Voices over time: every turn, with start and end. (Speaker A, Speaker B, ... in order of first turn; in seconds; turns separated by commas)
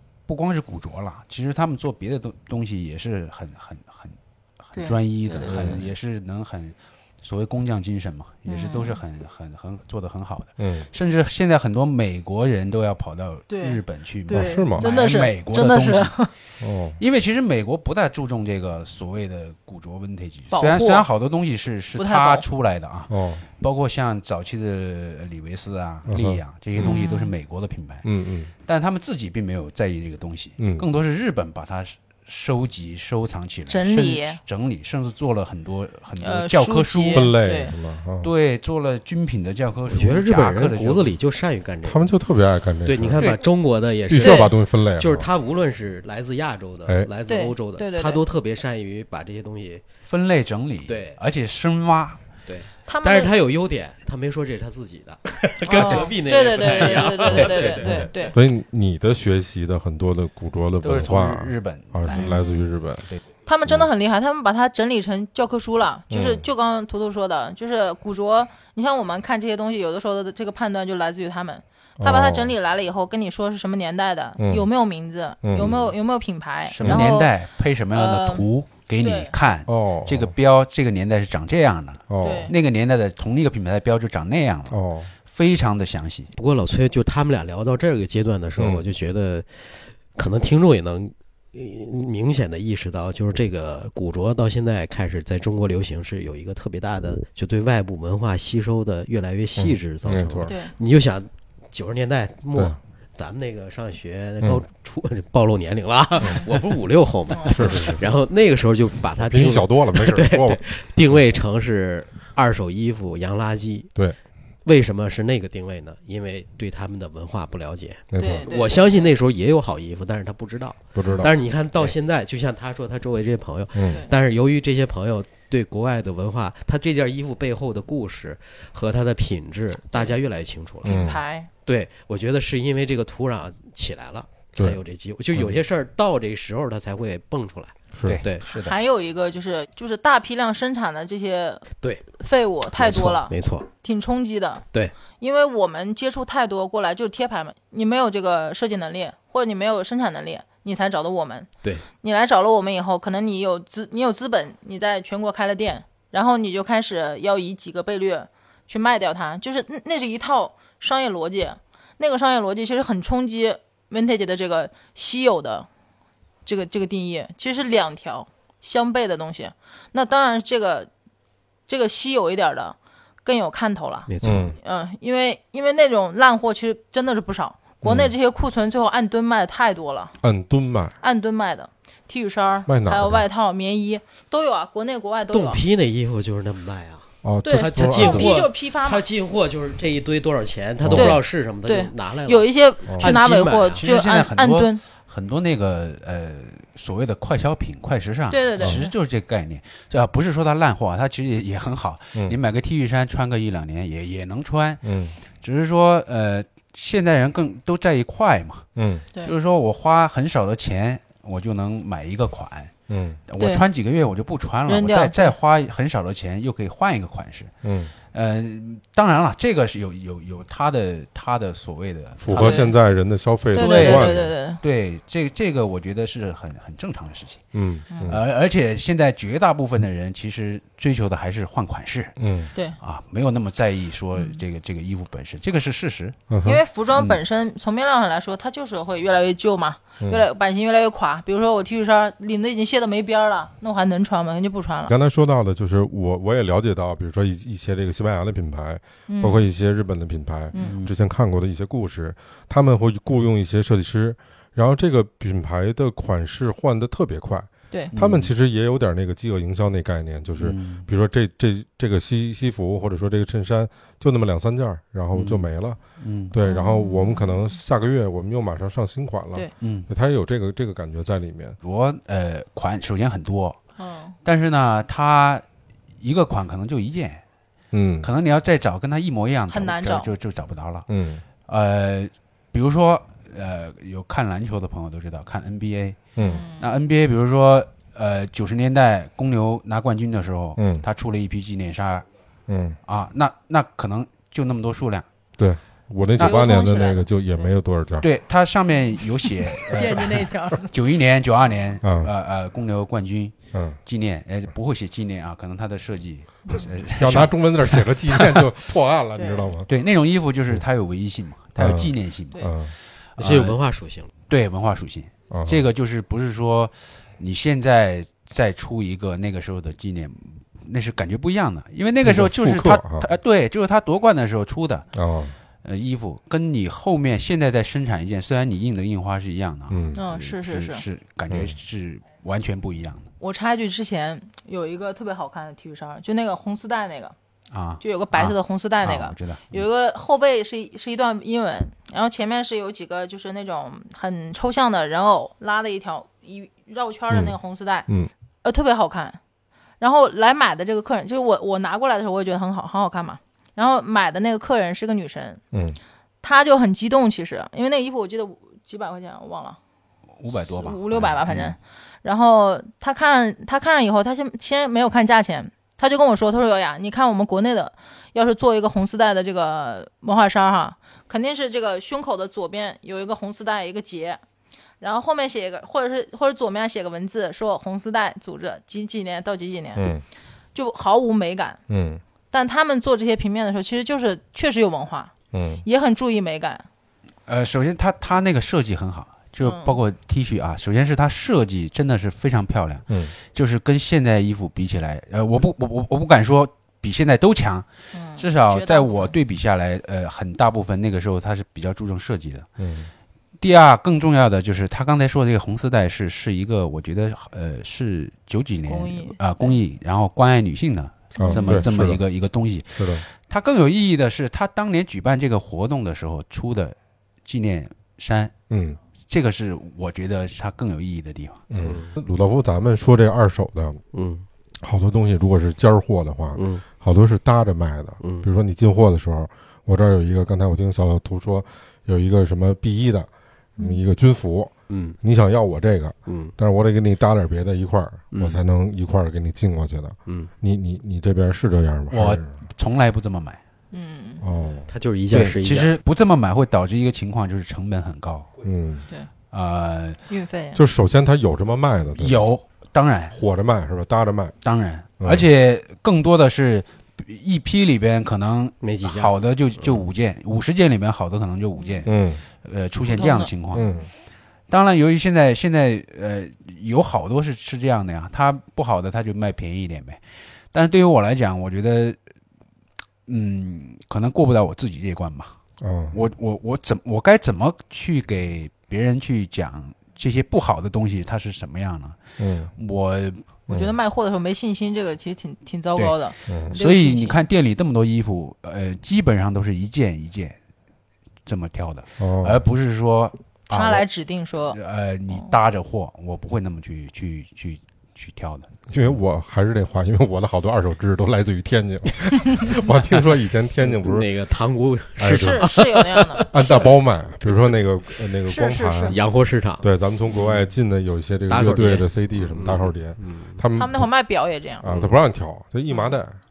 Speaker A: 0.3-16.3, Speaker B: 4.7-5.8, Speaker C: 5.4-5.9, Speaker B: 8.5-9.0, Speaker C: 10.6-10.9, Speaker B: 13.5-16.3, Speaker C: 14.3-14.9, Speaker C: 16.6-17.0, Speaker A: 17.0-28.1, Speaker B: 20.5-21.1, Speaker B: 21.9-22.4, Speaker C: 23.1-23.4, Speaker C: 26.1-27.0, Speaker B: 26.8-27.3, Speaker C: 28.0-28.5, Speaker A: 28.6-37.3, Speaker C: 30.6-30.8, Speaker B: 33.7-34.4, Speaker B: 36.2-37.7, Speaker C: 37.1-38.3, Speaker A: 38.2-41.1, Speaker D: 39.9-42.1, Speaker C: 41.8-43.4, Speaker D: 42.8-49.8, Speaker C: 44.1-45.3, Speaker B: 44.2-44.5, Speaker B: 47.3-48.2, Speaker A: 50.1-52.2, Speaker D: 50.9-51.2, Speaker D: 52.5-58.3, Speaker B: 52.9-53.3, Speaker B: 55.7-58.3, Speaker C: 57.2-63.1, Speaker A: 60.8-62.3, Speaker B: 62.1-62.7, Speaker B: 63.5-77.3, Speaker C: 66.1-66.5, Speaker C: 72.0-72.5, Speaker C: 74.4-74.7, Speaker C: 75.4-75.9, Speaker A: 76.7-86.3, Speaker C: 76.8-77.1, Speaker B: 77.9-78.5, Speaker B: 79.0-79.3, Speaker C: 79.7-80.3, Speaker C: 82.1-82.5, Speaker B: 82.2-82.5, Speaker C: 84.7-85.1, Speaker D: 86.3-113.9, Speaker C: 88.6-88.8, Speaker C: 99.6-100.5, Speaker B: 100.5-100.7, Speaker B: 107.3-107.7, Speaker C: 107.5-108.0, Speaker C: 109.2-110.6, Speaker D: 114.6-131.0, Speaker C: 118.1-118.5, Speaker B: 118.2-119.1, Speaker C: 120.9-121.3, Speaker C: 123.7-124.0, Speaker B: 130.8-131.5, Speaker C: 130.8-131.2, Speaker D: 131.7-138.4, Speaker A: 138.1-138.8, Speaker B: 138.5-141.7, Speaker D: 141.8-142.1, Speaker B: 142.2-144.6, Speaker D: 142.7-143.7, Speaker B: 145.2-151.5, Speaker B: 152.0-165.7, Speaker B: 166.4-170.9, Speaker B: 171.7-180.2, Speaker D: 174.1-174.6, Speaker C: 174.2-174.6, Speaker C: 177.8-178.1, Speaker C: 180.2-180.9, Speaker B: 181.0-185.6, Speaker C: 182.7-183.2, Speaker D: 185.3-193.8, Speaker C: 187.2-188.4, Speaker B: 187.4-189.0, Speaker C: 190.8-191.2, Speaker B: 190.9-194.8, Speaker A: 193.8-204.8, Speaker B: 198.3-198.9, Speaker C: 204.8-205.2, Speaker A: 205.4-212.7, Speaker C: 208.8-209.1, Speaker C: 212.9-213.2, Speaker A: 213.3-217.5, Speaker B: 213.4-213.7, Speaker B: 214.7-215.3, Speaker C: 217.6-217.9, Speaker A: 218.1-222.7, Speaker C: 222.2-224.3, Speaker B: 222.3-222.7, Speaker B: 223.5-224.6, Speaker A: 223.5-227.4, Speaker C: 227.5-228.2, Speaker B: 227.9-228.2, Speaker A: 228.1-232.2, Speaker C: 232.2-232.5, Speaker A: 232.8-236.3, Speaker B: 234.1-234.4, Speaker C: 236.3-236.6, Speaker B: 236.4-244.9, Speaker C: 244.9-265.8, Speaker B: 249.1-249.4, Speaker A: 250.5-250.9, Speaker A: 257.9-258.3, Speaker A: 260.4-260.9, Speaker A: 265.1-266.3, Speaker C: 266.3-271.6, Speaker B: 266.4-267.4, Speaker A: 269.6-269.9, Speaker A: 271.6-273.6, Speaker B: 273.8-274.2, Speaker A: 274.2-275.4, Speaker A: 276.0-277.2, Speaker C: 277.7-278.1, Speaker A: 278.0-280.9, Speaker B: 279.5-280.1, Speaker C: 280.9-281.2, Speaker A: 281.5-292.1, Speaker C: 286.1-286.4, Speaker B: 286.2-286.7, Speaker C: 290.6-290.8, Speaker C: 292.5-292.8, Speaker A: 292.9-295.1, Speaker C: 295.4-298.1, Speaker B: 296.2-297.1, Speaker A: 298.0-308.5, Speaker B: 299.6-300.7, Speaker C: 301.8-302.1, Speaker C: 303.5-303.8, Speaker C: 306.9-309.7, Speaker B: 309.2-309.5, Speaker A: 309.7-312.5, Speaker C: 311.6-312.7, Speaker A: 313.1-313.6, Speaker D: 313.2-314.1, Speaker A: 314.3-324.9, Speaker C: 315.3-315.6, Speaker C: 322.0-323.1, Speaker C: 324.9-325.3, Speaker A: 325.6-333.1, Speaker C: 329.7-330.0, Speaker B: 329.9-330.8, Speaker C: 331.3-331.5, Speaker B: 333.2-337.1, Speaker A: 337.5-339.6, Speaker B: 337.8-347.9, Speaker C: 347.1-347.4, Speaker B: 348.4-349.2, Speaker B: 349.8-355.4, Speaker C: 355.5-355.8, Speaker B: 356.2-359.6, Speaker A: 360.2-361.5, Speaker B: 360.5-374.2, Speaker B: 374.8-379.9, Speaker C: 379.8-380.0, Speaker B: 380.5-381.6, Speaker C: 381.7-382.0, Speaker B: 382.3-385.1, Speaker C: 385.3-385.6, Speaker B: 385.6-386.6, Speaker A: 387.3-402.5, Speaker B: 389.4-389.8, Speaker C: 392.9-393.1, Speaker B: 397.9-399.1, Speaker C: 402.6-402.9, Speaker A: 403.4-418.3, Speaker B: 408.7-409.5, Speaker B: 411.1-411.7, Speaker C: 411.2-412.0, Speaker C: 412.7-413.0, Speaker C: 418.5-418.8, Speaker A: 419.1-421.4, Speaker C: 421.5-423.8, Speaker D: 421.6-421.9, Speaker D: 423.9-424.2, Speaker C: 424.6-442.3, Speaker D: 426.3-426.6, Speaker D: 428.0-428.3, Speaker D: 434.7-435.0, Speaker D: 436.1-436.3, Speaker D: 438.1-438.4, Speaker D: 440.1-440.3, Speaker A: 441.9-443.4, Speaker B: 443.7-444.2, Speaker C: 444.2-444.7, Speaker D: 444.7-445.7, Speaker A: 445.1-448.3, Speaker C: 448.4-448.9, Speaker A: 449.3-450.0, Speaker B: 450.1-450.6, Speaker C: 450.5-452.2, Speaker A: 452.0-453.1, Speaker C: 453.1-454.3, Speaker A: 454.4-463.6, Speaker C: 455.0-455.3, Speaker D: 458.6-459.1, Speaker B: 461.6-461.9, Speaker C: 461.8-462.2, Speaker B: 462.9-463.3, Speaker C: 463.5-463.9, Speaker A: 464.5-472.0, Speaker A: 473.1-475.3, Speaker C: 475.6-476.0, Speaker A: 475.9-482.0, Speaker C: 482.2-482.5, Speaker A: 482.6-483.2, Speaker C: 483.5-483.7, Speaker B: 483.5-487.2, Speaker C: 486.3-486.5, Speaker A: 486.5-490.4, Speaker A: 491.2-493.9, Speaker C: 492.0-492.4, Speaker B: 493.5-494.6, Speaker A: 494.5-498.5, Speaker C: 498.7-504.1, Speaker D: 503.6-507.6, Speaker C: 505.0-505.6, Speaker B: 505.1-506.3, Speaker C: 506.2-509.0, Speaker B: 508.3-509.0, Speaker D: 508.9-509.7, Speaker C: 509.6-513.9, Speaker D: 511.3-513.4, Speaker B: 513.5-514.6, Speaker C: 514.6-516.2, Speaker D: 514.7-514.9